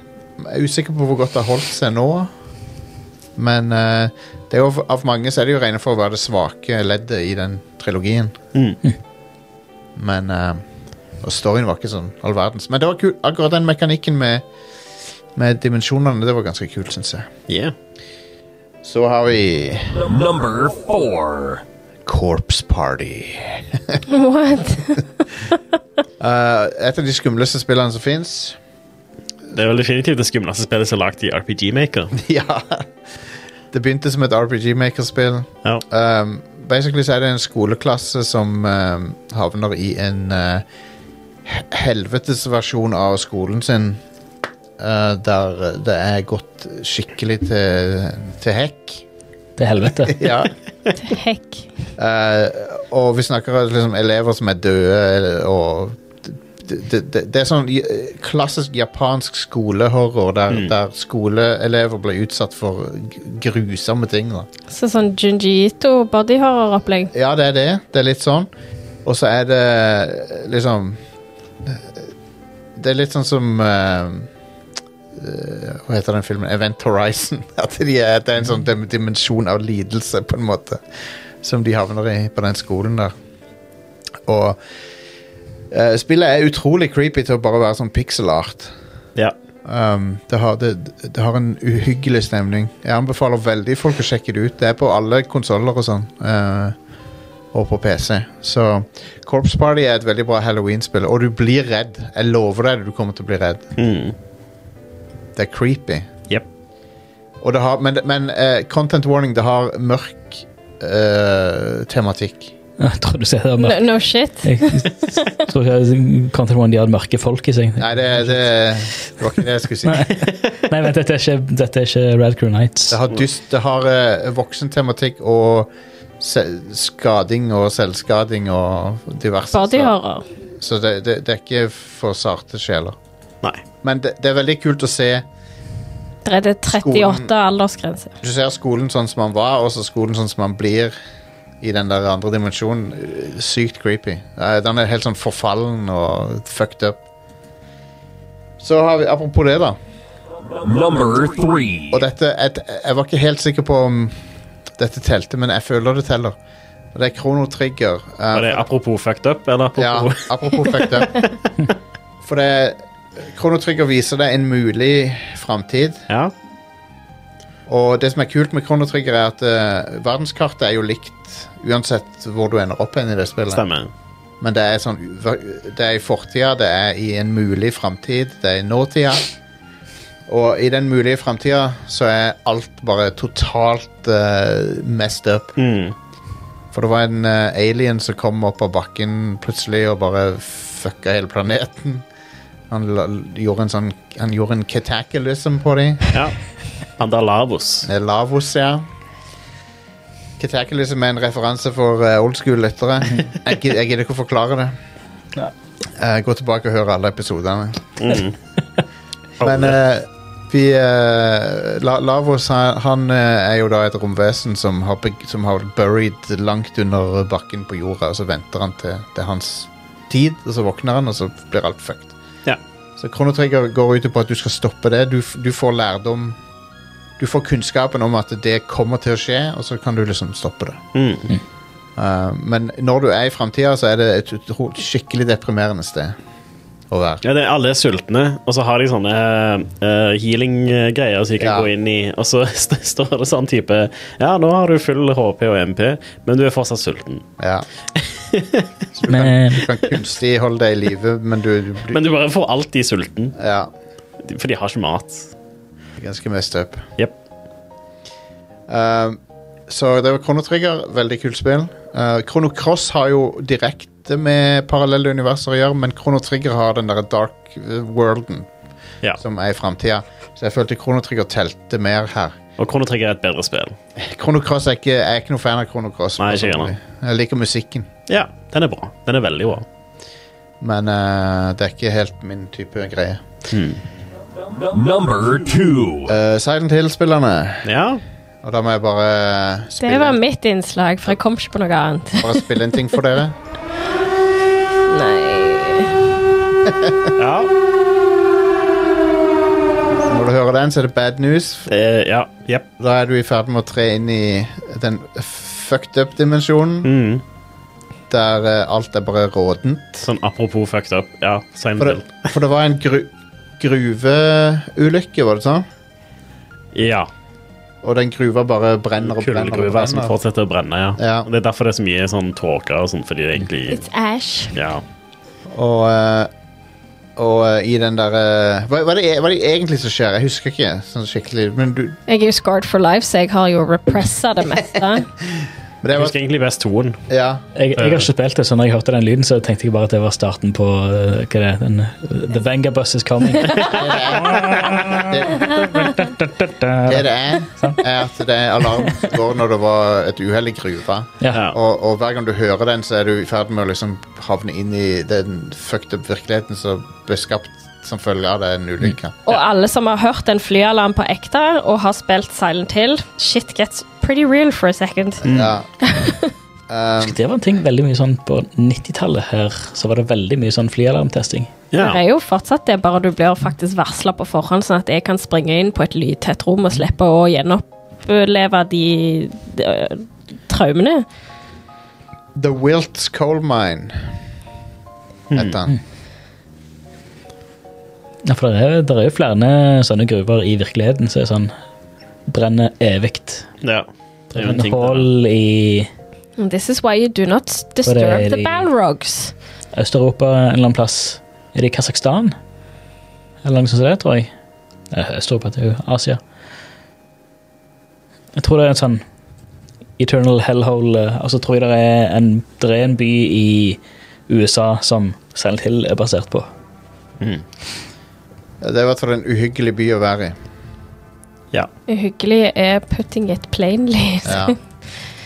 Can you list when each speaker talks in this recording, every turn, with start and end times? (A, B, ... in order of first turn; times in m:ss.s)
0:00.4-0:02.3 A
0:03.4-0:08.4 A
0:08.6-0:08.8 B
0:10.0-0:10.6 A
0:11.2-0:14.4 A
0:15.4-0:17.3 A
0:17.5-0:17.7 B
0:18.8-0:20.1 A
0:19.9-0:21.6 C
0:22.1-0:24.0 A
0:24.1-0:25.1 D
0:26.2-0:28.6 A
0:29.5-0:32.1 B
0:32.1-0:32.9 A
0:33.7-0:40.6 A
0:41.4-0:44.0 A
0:44.8-0:49.0 A
0:49.6-0:50.2 E
0:50.0-0:50.5 A
0:51.0-0:51.7 D
0:52.0-1:04.5 A
1:04.7-1:07.1 D
1:07.1-1:08.5 A
1:09.0-1:11.0 A
1:11.6-1:12.1 A
1:12.8-1:14.3 A
1:15.1-1:23.1 A
1:24.3-1:24.6 A
1:25.7-1:28.8 A
1:29.6-1:36.8 A
1:37.5-1:43.7 A
1:43.8-1:44.2 B
1:45.4-1:46.1 A
1:47.4-1:52.5 A
1:52.8-1:53.9 E
1:53.6-1:55.1 D
1:54.4-1:58.5 E
1:57.8-2:00.1 A
1:59.8-2:03.0 E
2:02.9-2:09.9 A
2:09.5-2:10.2 D
2:10.6-2:13.0 A
2:13.8-2:15.2 A
2:16.2-2:18.1 D
2:16.7-2:17.3 A
2:18.2-2:21.0 A
2:21.6-2:27.0 A
2:28.6-2:29.8 A
2:30.5-2:32.0 C
2:31.9-2:34.2 A
2:34.8-2:36.4 A
2:36.9-2:38.6 A
2:38.3-2:41.3 B
2:39.8-2:41.2 A
2:42.2-2:46.0 A
2:47.7-2:53.6 A
2:53.5-2:53.9 B
2:54.4-2:59.3 A
3:00.3-3:05.5 A
3:05.6-3:06.0 B
3:06.7-3:12.0 A
3:12.7-3:16.2 A
3:17.0-3:17.9 B
3:17.8-3:18.8 A
3:20.4-3:24.8 A
3:26.0-3:28.2 A
3:28.0-3:28.4 B
3:29.4-3:29.8 B
3:29.4-3:42.1 A
3:43.0-3:46.4 A
3:47.2-3:50.8 A
3:51.0-3:51.3 B
3:52.0-3:56.2 A
3:56.9-3:57.2 A
3:57.2-4:07.2 B
4:01.4-4:01.7 A
4:07.4-4:07.7 A
4:08.0-4:08.7 B
4:08.9-4:12.0 A
4:09.1-4:09.6 E
4:11.9-4:13.4 B
4:13.4-4:13.7 A
4:14.2-4:15.3 B
4:16.0-4:16.8 A
4:18.7-4:28.5 A
4:29.2-4:32.4 A
4:32.6-4:33.8 B
4:34.0-4:37.9 A
4:36.2-4:36.7 B
4:38.1-4:39.6 B
4:40.6-4:43.2 A
4:43.5-4:43.8 B
4:44.4-4:46.1 C
4:46.1-4:47.7 A
4:47.6-4:48.0 B
4:48.4-4:50.2 A
4:49.8-4:52.4 D
4:52.2-4:53.4 A
4:54.9-4:56.0 D
4:56.7-4:57.1 A
4:57.2-4:57.5 B
5:00.0-5:01.7 A
5:01.7-5:02.6 B
5:02.8-5:06.9 A
5:06.8-5:07.2 B
5:08.1-5:10.1 A
5:10.0-5:12.3 B
5:11.8-5:15.7 A
5:16.7-5:17.1 B
5:17.8-5:20.2 A
5:19.0-5:23.8 B
5:21.0-5:21.3 A
5:23.7-5:24.6 D
5:24.5-5:24.8 B
5:25.5-5:26.3 A
5:27.2-5:32.0 A
5:32.1-5:35.1 D
5:35.8-5:36.2 A
5:35.9-5:37.0 B
5:37.1-5:37.4 A
5:37.6-5:47.8 E
5:37.8-5:38.1 B
5:43.7-5:45.6 A
5:46.9-5:59.2 A
5:59.3-6:05.2 D
6:05.2-6:05.5 B
6:05.2-6:05.7 A
6:05.8-6:06.3 D
6:06.7-6:07.2 A
6:07.0-6:11.5 E
6:11.7-6:12.0 B
6:11.8-6:21.0 D
6:22.4-6:24.1 A
6:25.3-6:25.6 B
6:25.3-6:25.8 A
6:28.2-6:31.5 E
6:32.3-6:33.5 E
6:33.6-6:35.1 B
6:34.4-6:35.9 E
6:36.4-6:39.3 D
6:37.8-6:38.7 E
6:39.7-6:42.4 E
6:43.4-6:44.3 E
6:44.9-6:46.2 E
6:48.4-6:49.0 E
6:50.0-6:56.5 E
6:58.6-7:00.4 A
7:01.9-7:04.6 D
7:04.2-7:04.6 A